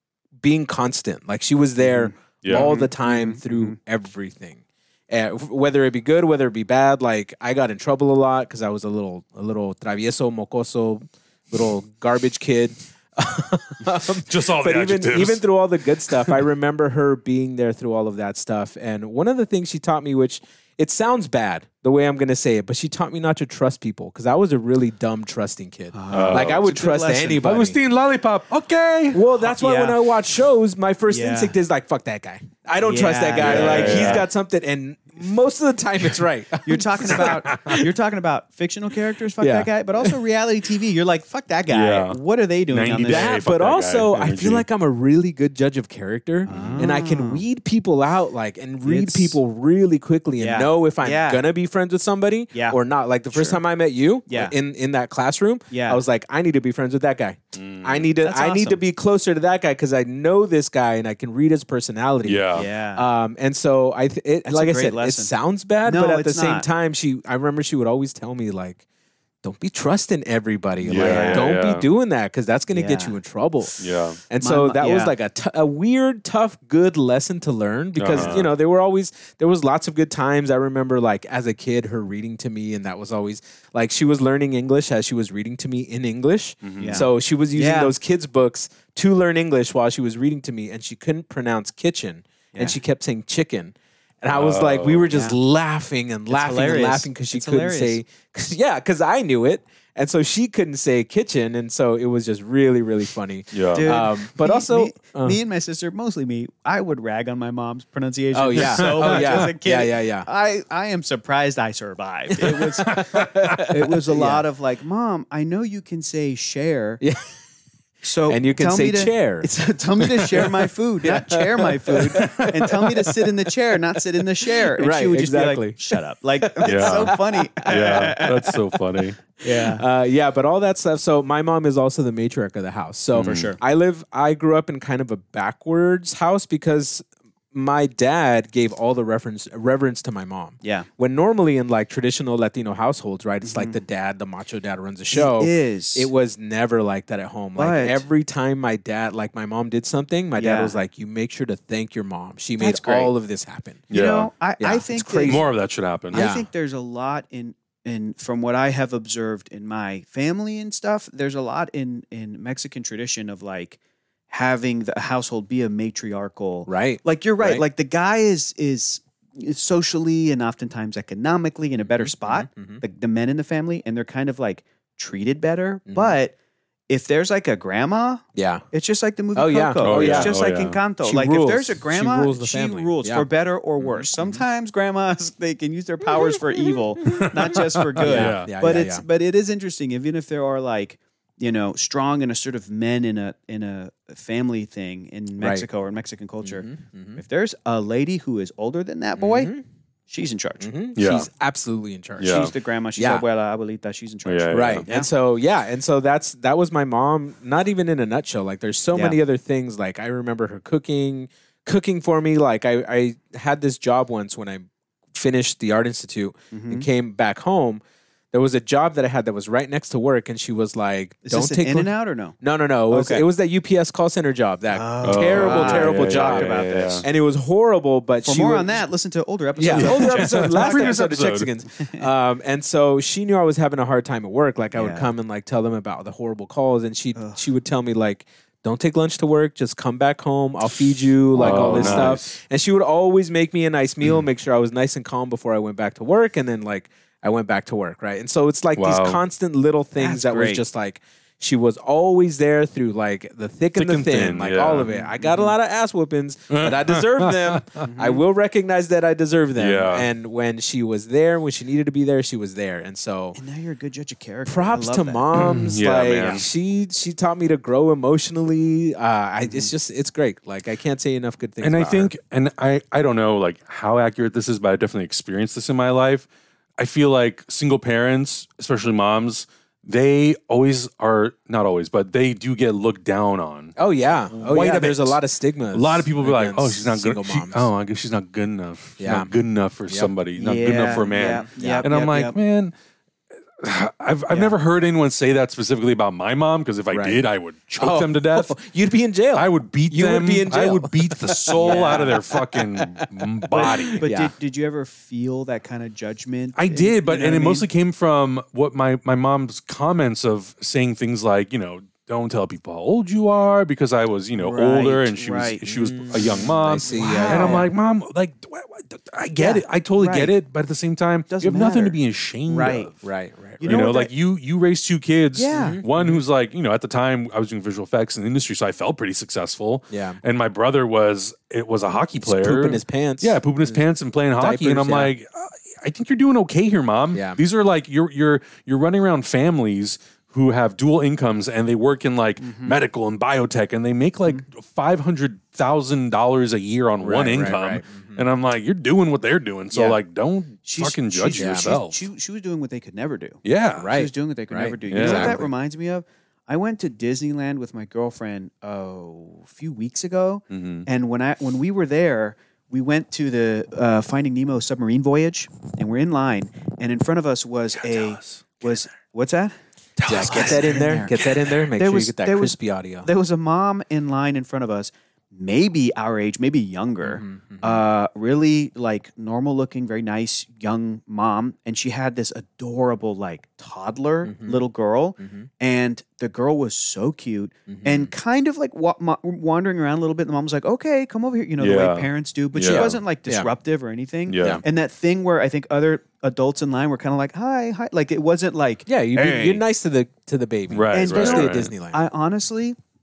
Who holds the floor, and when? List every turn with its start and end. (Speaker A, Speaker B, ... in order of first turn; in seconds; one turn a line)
Speaker A: 0.4-27.8
Speaker B: 1.8-3.8
Speaker C: 2.4-2.7
Speaker C: 14.2-15.4
Speaker B: 25.9-27.5
Speaker C: 26.1-26.6
Speaker C: 27.4-29.2
Speaker A: 29.1-37.8
Speaker B: 29.4-30.0
Speaker B: 31.1-31.5
Speaker B: 32.8-34.3
Speaker C: 33.4-34.3
Speaker B: 36.6-43.4
Speaker C: 37.1-37.8
Speaker A: 39.4-40.1
Speaker C: 41.7-42.2
Speaker C: 42.7-44.6
Speaker A: 43.0-68.8
Speaker B: 46.5-47.4
Speaker C: 46.5-46.8
Speaker B: 48.8-49.4
Speaker B: 50.4-51.4
Speaker B: 52.5-52.8
Speaker B: 53.3-53.6
Speaker B: 54.3-54.5
Speaker B: 55.7-56.0
Speaker C: 57.5-58.1
Speaker B: 58.2-58.8
Speaker C: 62.2-62.7
Speaker B: 62.5-63.0
Speaker B: 64.4-65.3
Speaker B: 65.8-66.7
Speaker A: 69.4-105.4
Speaker C: 70.8-71.9
Speaker B: 70.9-71.5
Speaker B: 72.7-73.2
Speaker C: 73.8-74.2
Speaker B: 74.4-75.1
Speaker C: 78.0-78.5
Speaker C: 86.6-87.0
Speaker B: 86.8-87.9
Speaker C: 94.3-95.1
Speaker B: 95.1-95.4
Speaker B: 96.3-98.0
Speaker C: 103.5-104.0
Speaker B: 103.7-117.0
Speaker A: 108.3-110.3
Speaker C: 108.5-109.5
Speaker A: 112.3-114.4
Speaker C: 112.8-113.7
Speaker A: 117.0-117.3
Speaker B: 118.0-128.6
Speaker A: 118.3-123.3
Speaker C: 122.1-122.7
Speaker A: 124.4-128.6
Speaker C: 126.6-129.2
Speaker A: 129.4-153.8
Speaker B: 129.4-129.8
Speaker C: 133.1-133.5
Speaker B: 133.2-133.6
Speaker B: 143.4-143.8
Speaker B: 145.1-146.1
Speaker B: 147.6-148.0
Speaker B: 150.3-150.8
Speaker B: 152.6-153.1
Speaker C: 153.9-154.3
Speaker B: 153.9-155.4
Speaker A: 154.6-155.5
Speaker C: 155.3-156.2
Speaker A: 156.1-156.5
Speaker B: 156.1-163.8
Speaker B: 164.3-176.3
Speaker A: 166.7-167.6
Speaker A: 171.9-172.8
Speaker A: 175.9-176.2
Speaker B: 176.9-199.5
Speaker A: 178.3-178.6
Speaker A: 179.3-180.4
Speaker C: 179.8-180.8
Speaker A: 181.0-183.2
Speaker A: 183.8-184.4
Speaker A: 186.2-189.0
Speaker C: 187.1-188.5
Speaker A: 195.4-195.7
Speaker A: 196.4-197.2
Speaker A: 199.2-199.6
Speaker B: 200.1-200.7
Speaker A: 200.6-203.2
Speaker C: 200.9-201.3
Speaker C: 202.2-202.5
Speaker B: 202.2-205.1
Speaker C: 204.2-204.8
Speaker A: 204.5-228.8
Speaker B: 208.9-209.2
Speaker B: 216.5-216.9
Speaker B: 221.2-222.4
Speaker B: 222.9-223.2
Speaker B: 224.7-227.1
Speaker C: 225.0-227.0
Speaker B: 228.2-231.0
Speaker A: 229.6-263.4
Speaker C: 229.7-231.5
Speaker B: 231.8-232.1
Speaker B: 234.7-235.1
Speaker C: 241.3-242.3
Speaker B: 241.4-242.1
Speaker C: 248.8-249.2
Speaker B: 250.0-250.6
Speaker C: 253.8-254.9
Speaker B: 254.9-255.5
Speaker C: 256.5-257.9
Speaker B: 257.8-258.2
Speaker C: 259.6-260.1
Speaker B: 263.3-265.2
Speaker A: 264.4-272.1
Speaker C: 265.3-266.4
Speaker B: 269.4-269.7
Speaker C: 271.6-276.3
Speaker C: 276.8-283.7
Speaker A: 283.8-287.7
Speaker C: 284.3-285.2
Speaker C: 285.7-292.7
Speaker A: 289.0-289.3
Speaker A: 289.9-290.1
Speaker B: 290.4-292.4
Speaker A: 290.9-291.9
Speaker C: 293.6-298.6
Speaker A: 296.9-297.2
Speaker A: 297.8-304.3
Speaker C: 299.3-304.0
Speaker B: 301.6-302.2
Speaker B: 303.5-307.6
Speaker C: 306.6-322.9
Speaker B: 314.4-315.6
Speaker A: 315.6-317.7
Speaker B: 316.1-317.7
Speaker B: 319.4-320.3
Speaker B: 321.3-322.9
Speaker A: 323.0-323.8
Speaker B: 323.6-324.1
Speaker C: 323.6-352.0
Speaker B: 325.3-325.8
Speaker A: 325.5-326.2
Speaker A: 329.9-330.2
Speaker A: 332.2-333.8
Speaker A: 334.4-335.1
Speaker A: 337.1-337.4
Speaker B: 342.4-342.8
Speaker A: 347.0-348.2
Speaker B: 349.7-350.0
Speaker B: 350.6-369.5
Speaker A: 351.4-351.8
Speaker C: 353.4-353.9
Speaker A: 353.8-355.5
Speaker C: 354.9-355.4
Speaker C: 360.5-360.9
Speaker C: 367.8-368.8
Speaker C: 370.0-371.5
Speaker A: 370.1-373.1
Speaker B: 370.1-399.6
Speaker A: 377.0-377.8
Speaker A: 384.2-384.6
Speaker A: 385.2-385.5
Speaker A: 387.7-388.1
Speaker C: 391.6-392.9
Speaker A: 392.6-393.5
Speaker C: 394.3-394.6
Speaker A: 398.9-402.0
Speaker C: 400.7-401.7
Speaker B: 400.9-402.8